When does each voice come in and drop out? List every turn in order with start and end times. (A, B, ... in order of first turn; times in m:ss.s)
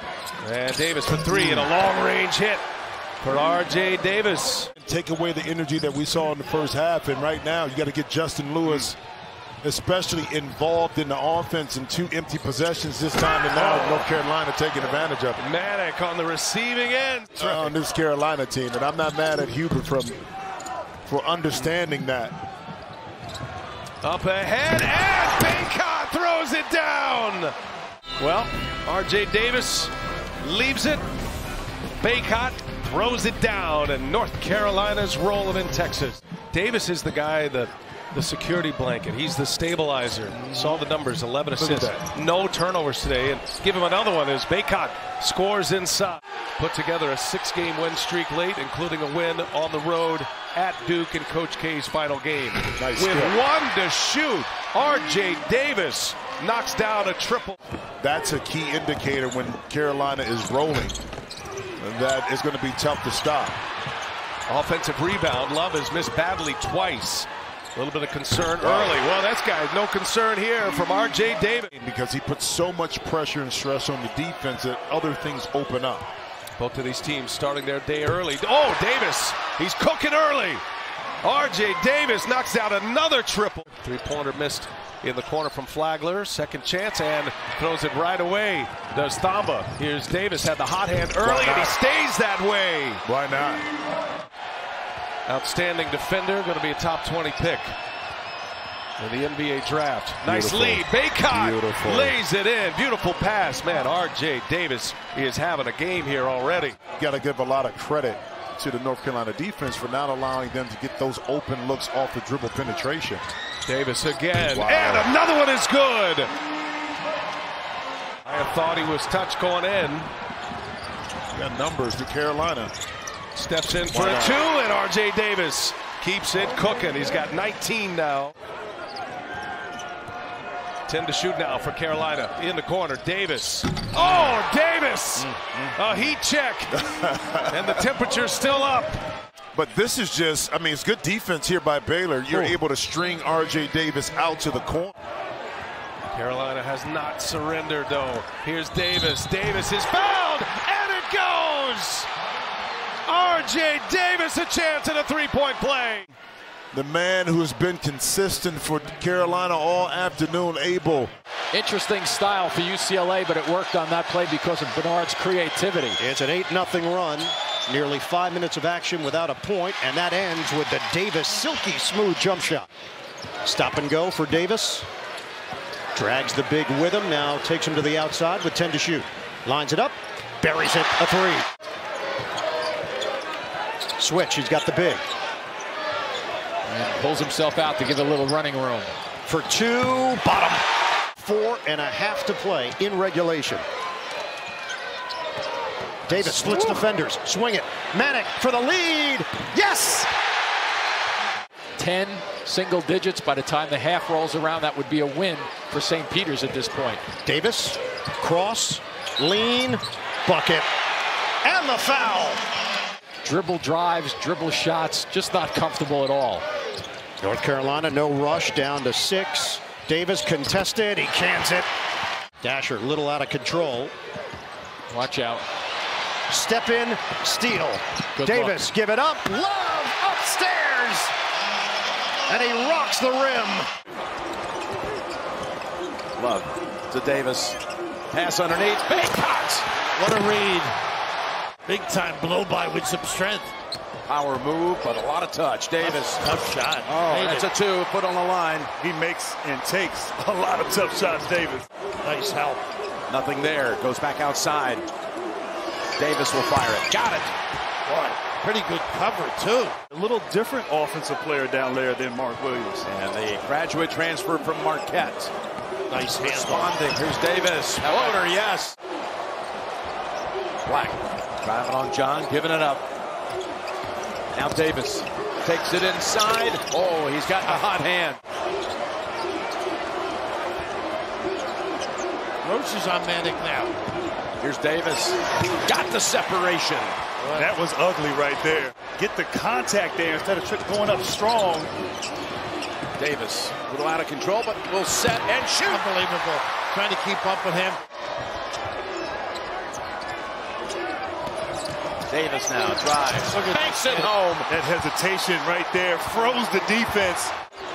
0:00.4-0:02.6 A
0:01.3-0:01.7 B
0:03.2-0:04.7 A
0:04.8-0:09.0 B
0:09.6-0:15.4 B
0:13.5-0:14.1 A
0:15.4-0:17.7 A
0:17.4-0:20.2 B
0:21.1-0:22.4 B
0:24.0-0:27.5 A
0:28.2-0:31.0 A
0:32.0-0:57.6 A
0:40.4-0:40.8 B
0:41.6-0:41.9 B
0:52.8-0:53.4 B
0:58.0-1:01.0 B
1:01.8-1:03.6 B
1:04.5-1:11.7 A
1:08.6-1:09.0 B
1:11.7-1:16.1 B
1:16.6-1:20.6 A
1:21.2-1:33.0 A
1:31.2-1:31.7 B
1:33.0-1:33.7 B
1:35.3-1:37.7 A
1:39.0-1:46.8 A
1:40.2-1:42.2 B
1:47.0-1:53.2 B
1:53.7-1:56.3 A
1:54.5-1:55.1 B
1:58.2-2:00.1 A
2:01.3-2:02.7 B
2:03.3-2:08.3 A
2:03.9-2:04.4 B
2:10.9-2:16.8 A
2:16.8-2:17.7 B
2:17.5-2:19.0 A
2:19.5-2:24.9 B
2:26.1-2:32.1 A
2:33.1-2:36.1 A
2:36.7-2:41.1 B
2:41.5-2:46.0 C
2:46.0-2:52.7 D
2:53.4-2:54.9 D
2:56.0-3:01.4 D
3:04.0-3:05.0 D
3:06.7-3:08.9 C
3:09.2-3:10.6 D
3:11.2-3:13.6 D
3:16.1-3:19.4 D
3:16.1-3:16.7 C
3:19.6-3:20.1 C
3:21.8-3:27.0 C
3:27.2-3:30.7 D
3:31.4-3:32.4 D
3:33.2-3:36.4 C
3:37.2-3:41.7 D
3:42.4-3:43.9 D
3:44.9-3:45.4 C
3:46.3-3:51.1 D
3:48.2-3:48.7 C
3:52.3-3:53.7 D
3:56.2-3:57.6 E
3:58.1-3:59.7 E
3:59.9-4:00.8 F
4:01.7-4:03.5 F
4:04.1-4:06.2 E
4:05.8-4:07.5 F
4:06.9-4:08.7 E
4:08.8-4:11.6 G
4:12.0-4:12.6 F
4:13.1-4:14.9 E
4:16.0-4:17.4 E
4:17.9-4:19.8 F
4:19.9-4:22.8 G
4:22.8-4:25.3 E
4:25.9-4:26.9 F
4:26.2-4:28.8 E
4:27.8-4:28.2 F
4:30.6-4:32.8 E
4:34.3-4:38.2 E
4:42.4-4:43.8 F
4:44.4-4:47.0 E
4:47.2-4:47.5 F
4:47.4-4:51.7 G
4:53.0-4:55.8 E
4:55.5-4:57.8 F
5:02.1-5:04.5 E
5:03.1-5:04.2 F
5:04.5-5:07.3 G